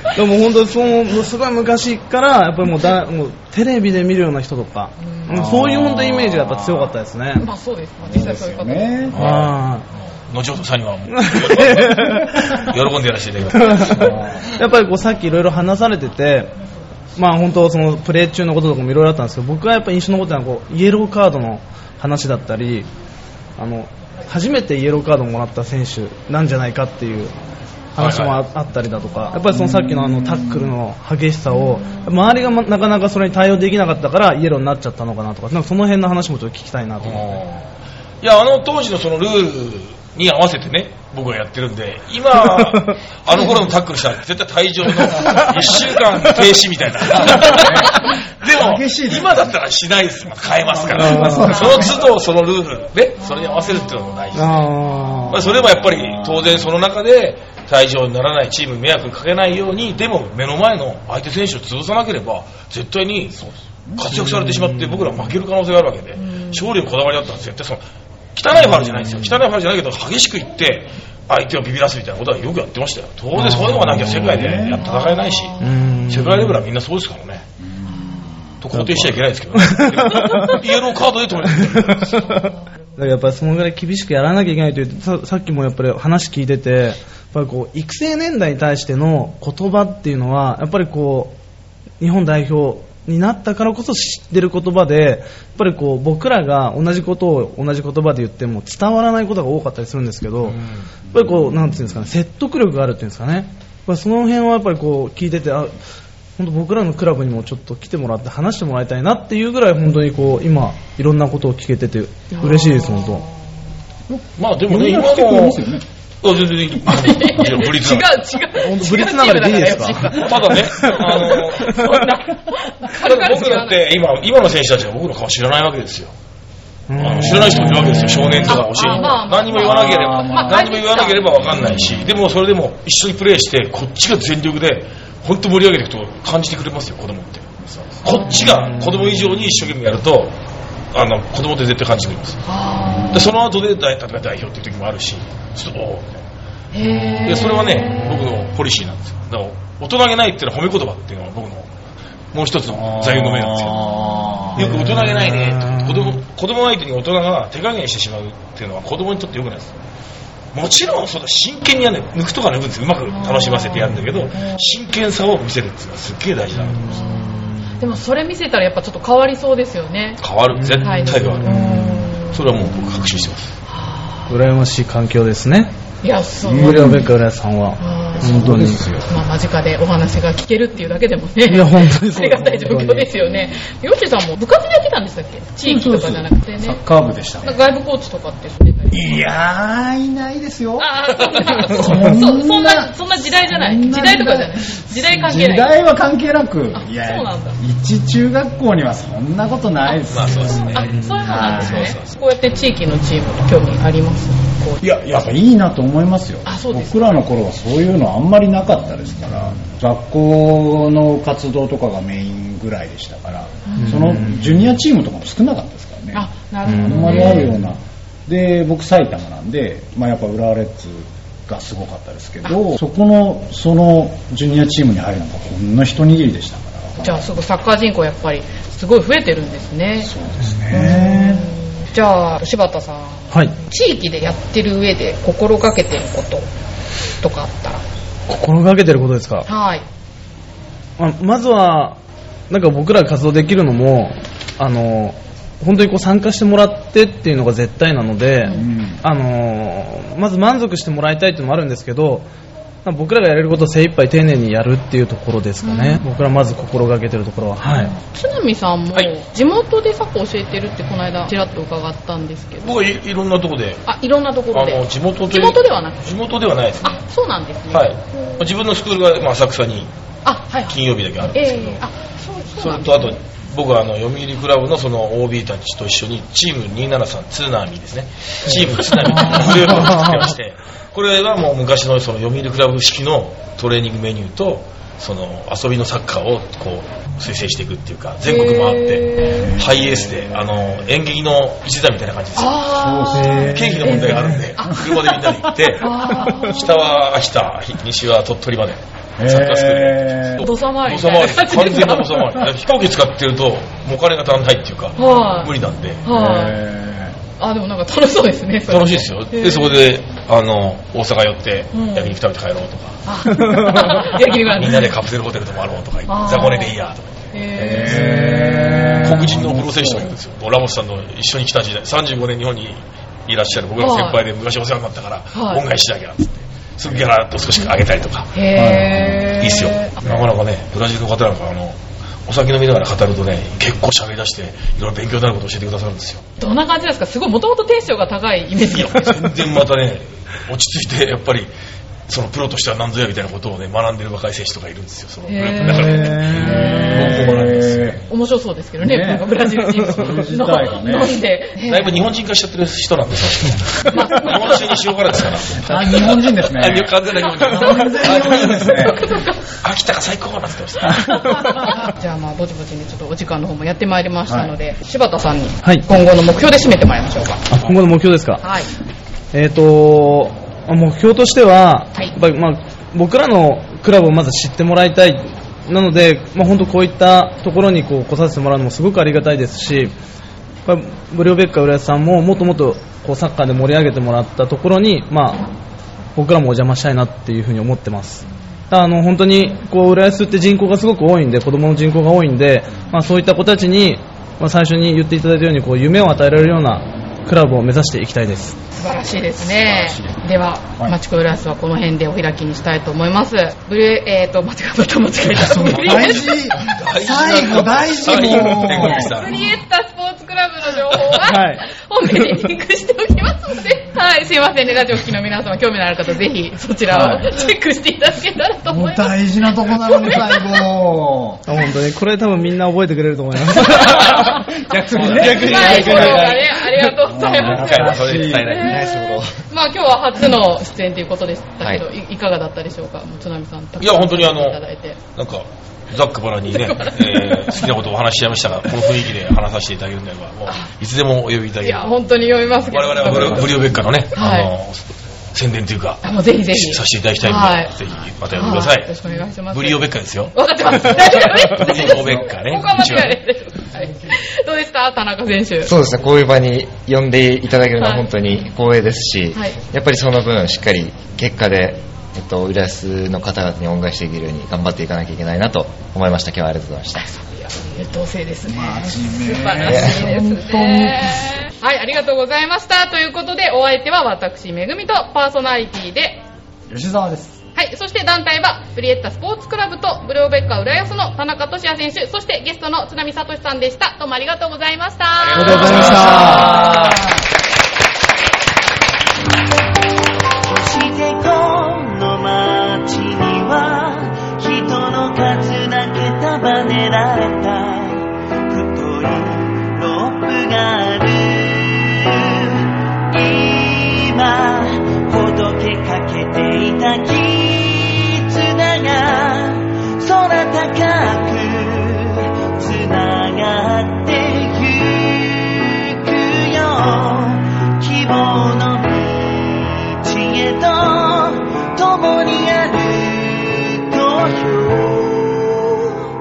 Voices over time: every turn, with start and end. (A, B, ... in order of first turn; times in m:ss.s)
0:00.1-0:07.4 A
0:05.0-0:05.6 B
0:05.3-0:06.7 C
0:07.4-0:09.1 B
0:08.0-0:09.3 C
0:09.1-0:09.6 D
0:09.2-0:09.8 A
0:10.2-0:14.2 D
0:11.2-0:12.5 A
0:13.5-0:16.5 A
0:14.0-0:14.5 C
0:17.1-0:22.9 A
0:23.6-0:27.4 A
0:28.0-0:37.4 A
0:28.0-0:28.4 D
0:29.5-0:30.6 C
0:37.0-0:37.7 D
0:38.2-0:54.6 D
0:42.6-0:43.5 A
0:47.4-0:49.5 C
0:50.6-0:51.9 C
0:50.9-0:51.8 A
0:51.5-0:51.9 B
0:53.2-0:53.8 B
0:54.3-0:55.4 A
0:55.3-1:07.8 D
0:55.8-0:56.5 C
1:06.2-1:06.6 B
1:08.3-1:15.6 D
1:13.4-1:14.1 A
1:13.6-1:14.8 C
1:14.8-1:16.0 B
1:15.6-1:16.6 A
1:16.1-1:17.4 D
1:17.6-1:18.6 C
1:18.0-1:18.2 B
1:18.6-1:22.3 D
1:18.7-1:20.6 A
1:21.5-1:31.4 A
1:22.2-1:22.5 B
1:32.0-1:40.6 A
1:40.4-1:40.9 D
1:41.1-1:45.7 A
1:46.4-1:53.2 A
1:52.3-1:53.3 B
1:54.1-1:55.8 C
1:54.4-1:58.2 D
1:56.8-2:03.8 B
1:58.6-2:00.2 A
2:00.1-2:01.8 D
2:02.9-2:06.1 D
2:06.9-2:08.5 A
2:07.0-2:20.4 D
2:08.4-2:11.9 B
2:09.6-2:10.6 C
2:17.6-2:18.3 C
2:18.0-2:18.5 B
2:20.9-2:22.4 D
2:22.4-2:23.3 B
2:23.1-2:26.2 D
2:26.7-2:28.1 B
2:27.2-2:31.7 D
2:32.3-2:33.8 D
2:33.0-2:34.8 C
2:34.0-2:34.5 B
2:34.5-2:39.7 D
2:34.8-2:36.2 A
2:40.5-2:47.0 D
2:43.1-2:44.7 B
2:46.6-2:47.8 A
2:46.9-2:50.2 B
2:50.2-2:53.5 D
2:50.5-2:52.1 A
2:50.8-2:52.5 B
2:53.7-2:54.3 B
2:54.3-2:55.7 A
2:56.0-2:56.9 B
2:56.4-2:57.0 C
2:56.6-2:58.9 A
2:57.8-3:06.8 B
2:58.2-2:59.0 C
3:01.4-3:03.1 A
3:05.6-3:07.6 C
3:07.4-3:09.2 B
3:08.9-3:21.9 C
3:10.8-3:15.7 B
3:16.7-3:17.6 B
3:19.8-3:24.8 B
3:20.1-3:22.1 D
3:24.8-3:47.2 C
3:26.4-3:27.0 B
3:33.7-3:34.0 B
3:33.8-3:34.6 A
3:36.1-3:37.5 B
3:36.6-3:37.4 A
3:47.0-3:50.1 B
3:50.0-3:51.5 C
3:50.5-3:51.0 A
3:50.7-3:56.5 B
3:57.2-3:57.8 B
3:58.3-3:59.5 A
3:59.4-3:59.8 B
4:01.0-4:02.0 A
4:02.5-4:12.3 A
4:08.6-4:09.0 C
4:12.8-4:17.9 A
4:15.6-4:16.0 B
4:17.7-4:22.8 B
4:22.6-4:23.9 D
4:23.8-4:26.1 B
4:24.5-4:27.0 D
4:26.8-4:28.4 B
4:27.7-4:29.9 D
4:30.2-4:33.2 B
4:30.6-4:31.8 D
4:32.6-4:52.6 D
4:38.9-4:40.3 A
4:48.2-4:49.5 B
4:49.4-4:50.6 C
4:52.4-4:56.9 B
4:52.7-4:54.4 C
4:53.2-4:53.5 A
4:53.4-5:06.1 D
4:59.2-5:00.4 C
5:00.4-5:02.4 B
5:05.0-5:05.5 B
5:06.0-5:06.6 B
5:06.1-5:07.2 C
5:07.4-5:09.9 B
5:08.7-5:13.0 D
5:11.7-5:12.2 B
5:13.0-5:14.9 B
5:13.3-5:13.9 A
5:14.0-5:17.2 D
5:16.1-5:16.8 B
5:17.3-5:19.0 B
5:17.5-5:20.1 C
5:19.0-5:28.3 D
5:23.8-5:24.2 B
5:25.3-5:25.6 B
5:28.3-5:30.0 B
5:28.5-5:29.3 C
5:29.4-5:36.2 D
5:36.4-5:39.3 B
5:38.7-5:41.5 D
5:42.1-5:48.1 D
5:45.3-5:47.3 B
5:45.9-5:46.6 A
5:46.4-5:48.0 C
5:48.1-5:52.0 B
5:48.8-5:51.2 C
5:51.6-5:58.9 D
5:53.9-5:54.7 B
5:55.6-5:59.2 C
5:57.2-5:59.4 B
5:59.6-6:01.7 D
6:01.0-6:07.4 B
6:04.3-6:04.5 C
6:07.5-6:08.4 A
6:08.4-6:08.7 B
6:09.3-6:20.0 A
6:20.6-6:25.5 A
6:26.2-6:38.6 A
6:38.7-6:46.3 B
6:39.4-6:40.2 C
6:45.3-6:49.1 C
6:45.5-6:49.5 D
6:48.8-7:00.6 B
6:50.9-6:51.2 D
6:51.2-6:52.3 A
6:56.9-6:57.4 C
6:58.7-7:01.4 C
7:01.5-7:04.5 A
7:03.7-7:15.0 B
7:03.8-7:04.2 D
7:04.6-7:06.5 C
7:04.9-7:06.3 D
7:05.0-7:06.9 A
7:07.0-7:08.6 C
7:07.3-7:08.8 D
7:08.6-7:09.4 E
7:13.8-7:14.6 D
7:15.1-7:22.0 D
7:21.6-7:23.6 B
7:22.5-7:29.0 D
7:24.1-7:24.5 B
7:26.0-7:27.7 B
7:28.3-7:35.7 B
7:29.5-7:33.2 D
7:35.6-7:47.0 E
7:37.8-7:38.1 B
7:46.9-7:56.2 B
7:48.4-7:51.3 C
7:49.6-7:49.9 E
7:56.7-7:57.4 C
7:57.5-8:07.1 B
8:05.2-8:07.0 D
8:05.4-8:06.7 A
8:06.2-8:06.5 C
8:10.5-8:46.0 F